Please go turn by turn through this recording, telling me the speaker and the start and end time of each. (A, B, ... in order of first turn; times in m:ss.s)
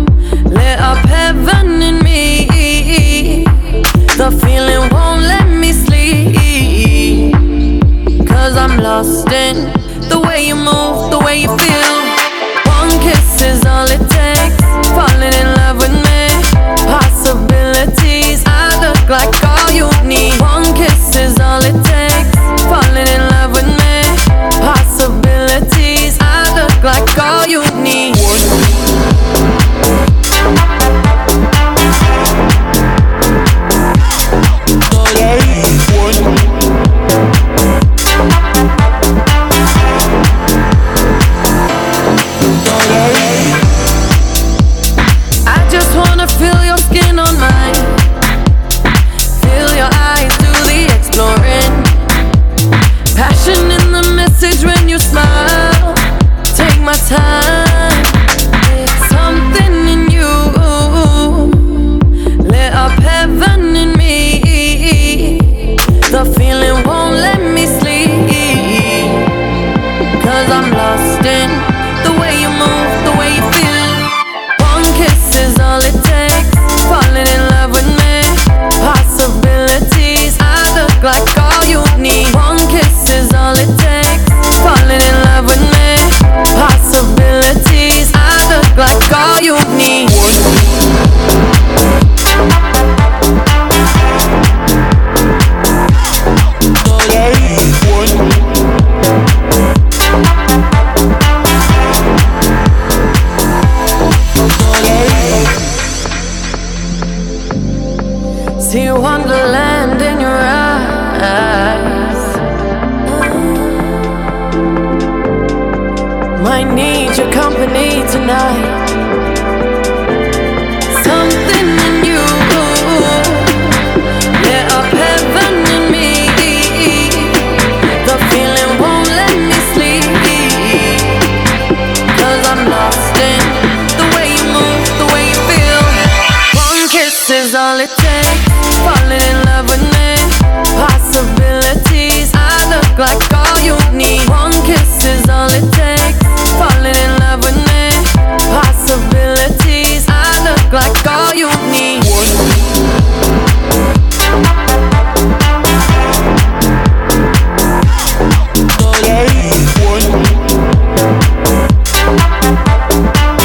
0:00.5-0:07.4 A
0:08.2-0:28.5 A
0:35.1-0:35.9 A
0:42.6-0:43.6 A
0:45.4-0:48.0 A
0:49.3-0:51.9 A
0:53.1-1:01.9 A
1:02.4-1:09.3 A
1:10.2-1:30.4 A
1:37.0-1:37.9 A
1:44.6-1:45.6 A
1:48.6-1:52.3 A
1:53.0-1:54.1 A
1:56.4-1:58.8 A
2:00.9-2:03.7 A
2:04.4-2:11.2 A
2:12.1-2:32.3 A
2:39.0-2:39.8 A